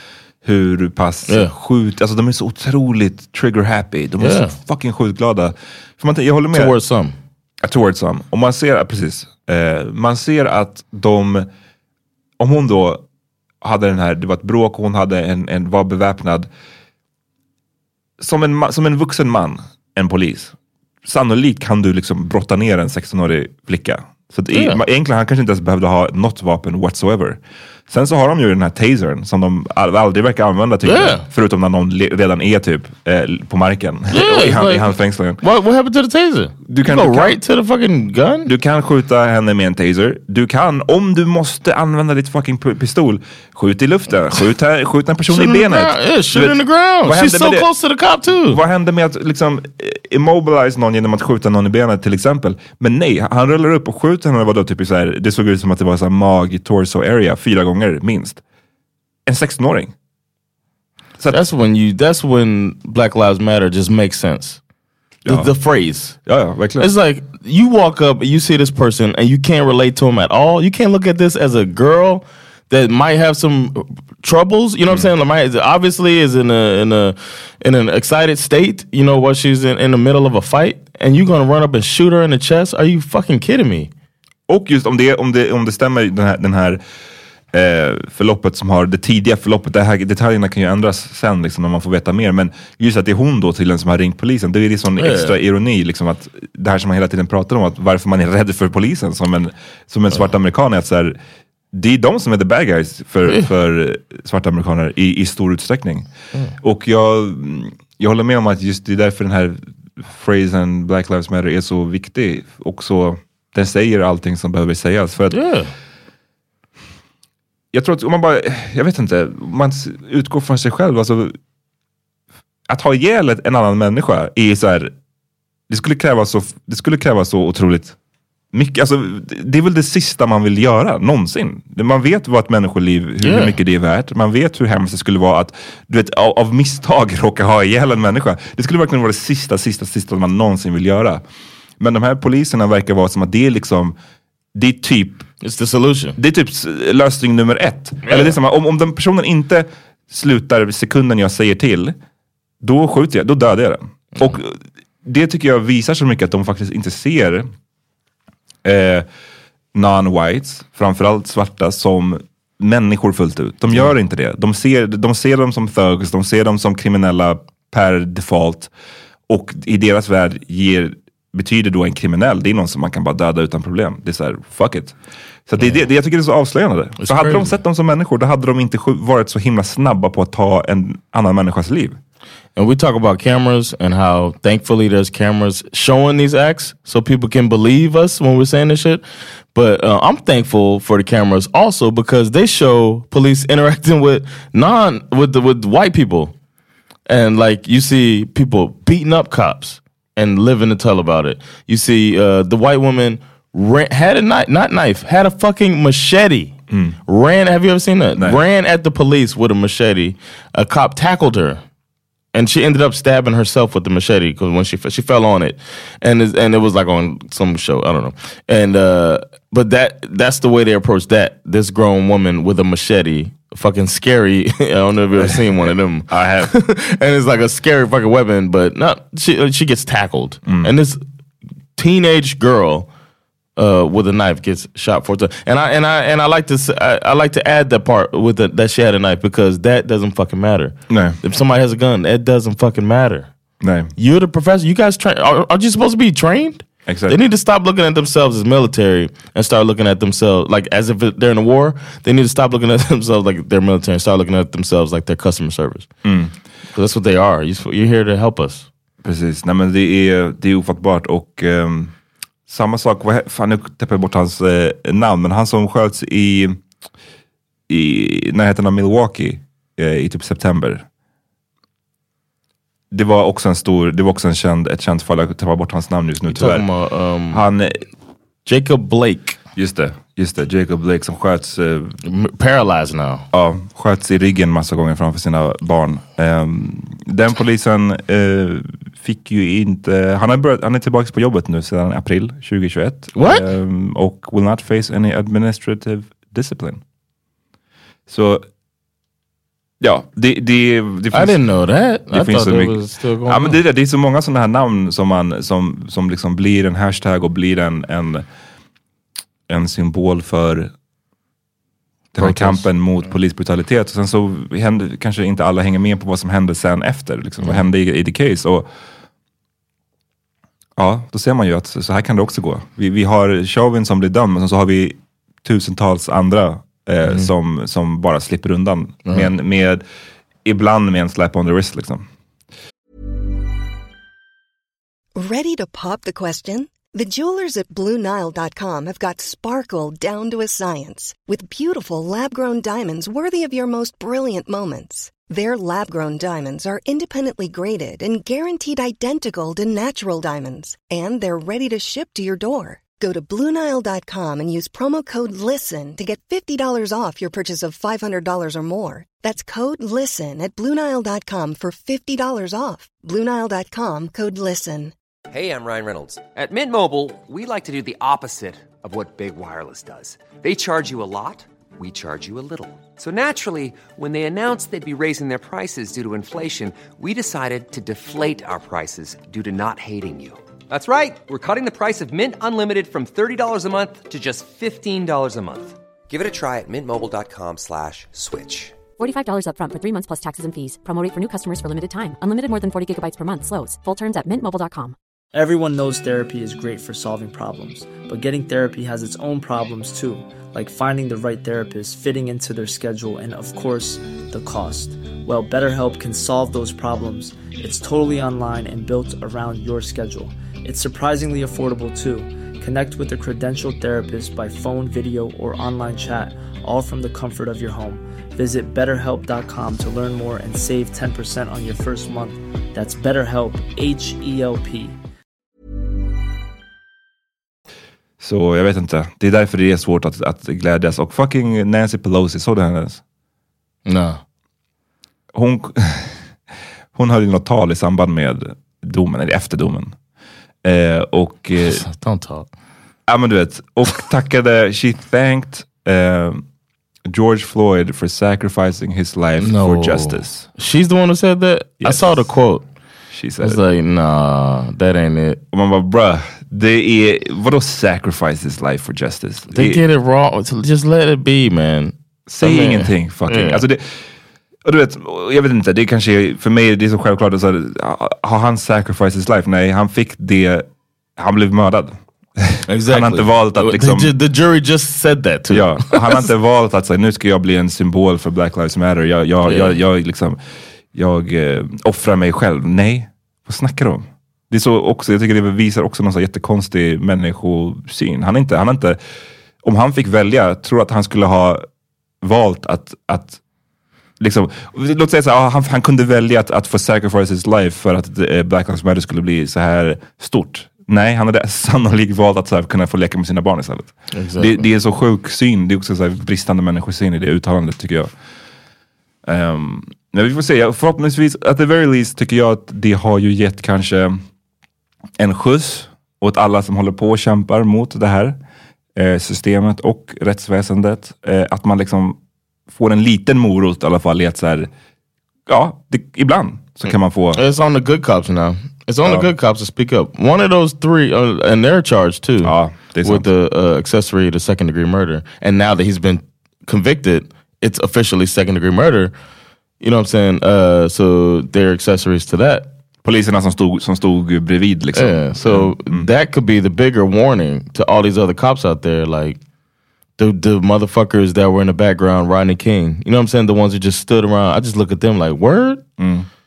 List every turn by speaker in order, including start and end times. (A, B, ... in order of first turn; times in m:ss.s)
0:00.4-0:06.7 A
0:04.2-0:04.6 B
0:06.5-0:07.1 B
0:07.6-0:11.5 A
0:12.4-0:13.0 A
0:13.6-0:16.5 A
0:18.2-0:20.5 A
0:21.0-0:35.4 A
0:24.5-0:24.8 B
0:30.8-0:31.2 B
0:34.1-0:38.5 B
0:36.7-0:37.4 A
0:38.4-0:47.7 A
0:45.3-0:48.6 B
0:48.5-0:58.4 A
0:59.2-0:59.9 A
1:01.3-1:04.6 B
1:05.2-1:05.5 A
1:05.3-1:06.2 B
1:06.2-1:06.9 A
1:06.8-1:23.9 B
1:24.5-1:26.8 A
1:27.5-1:41.2 A
1:35.0-1:35.3 B
1:41.7-1:46.1 A
1:46.6-1:55.4 A
1:55.3-1:55.7 B
1:57.7-2:01.3 A
2:02.7-2:04.9 A
2:05.7-2:08.0 A
2:08.5-2:21.2 A
2:13.2-2:13.5 B
2:21.8-2:23.9 A
2:24.5-2:25.3 A
2:25.4-2:26.2 B
2:26.2-2:31.9 A
2:28.0-2:28.3 B
2:32.6-2:37.5 A
2:38.6-2:39.0 A
2:39.7-2:48.7 A
2:49.3-2:54.9 A
2:55.5-3:02.0 A
2:57.0-2:57.5 B
3:02.6-3:16.3 B
3:17.1-3:26.5 B
3:26.7-3:27.0 A
3:27.0-3:31.6 B
3:32.3-3:51.0 B
3:45.2-3:46.5 A
3:50.4-3:50.7 A
3:51.8-3:52.9 B
3:53.6-4:03.3 B
4:00.9-4:01.2 A
4:03.6-4:03.9 A
4:04.0-4:15.9 B
4:06.9-4:07.2 A
4:16.0-4:16.3 A
4:16.7-4:18.7 B
4:19.0-4:21.9 A
4:22.5-4:26.6 A
4:27.7-4:30.8 A
4:32.9-4:36.7 A
4:36.3-4:37.4 B
4:37.3-4:37.8 A
4:38.4-4:39.4 B
4:39.6-4:42.0 A
4:42.0-4:43.2 B
4:43.3-4:56.8 A
4:53.2-4:53.4 B
4:58.1-4:58.4 A
4:59.8-5:01.4 A
5:01.1-5:03.6 B
5:02.1-5:08.2 A
5:09.5-5:10.7 A
5:12.2-5:12.6 B
5:12.2-5:18.7 A
5:20.8-5:29.8 A
5:30.4-5:32.0 A
5:35.2-6:04.9 C
6:05.3-6:28.8 D
6:29.0-6:34.9 E
6:35.3-7:05.0 F
7:08.2-7:13.0 A
7:13.8-7:14.2 B
7:15.3-7:16.2 A
7:16.9-7:19.9 A
7:20.6-7:21.8 A
7:21.7-7:22.5 B
7:23.1-7:26.4 A
7:27.1-7:30.5 A
7:29.4-7:32.6 B
7:31.8-7:32.2 A
7:33.1-7:33.6 A
7:33.4-7:35.4 B
7:35.5-7:39.8 A
7:39.5-7:43.6 B
7:42.3-7:44.0 A
7:44.6-7:50.6 A
7:51.2-7:54.1 A
7:52.7-7:56.2 B
7:55.5-8:00.4 A
7:59.4-7:59.8 B
8:00.9-8:09.0 A
8:09.6-8:11.6 A
8:12.2-8:13.4 A
8:14.2-8:28.1 A
8:24.1-8:24.6 B
8:29.2-8:34.2 A
8:35.2-8:38.4 A
8:39.0-8:42.2 A
8:42.7-8:44.7 A
8:45.5-8:47.4 A
8:47.3-8:52.5 B
8:52.4-8:53.2 A
8:53.0-8:59.1 B
8:59.8-9:02.7 B
9:03.0-9:06.1 A
9:05.0-9:09.4 B
9:10.2-9:15.8 B
9:16.0-9:16.3 A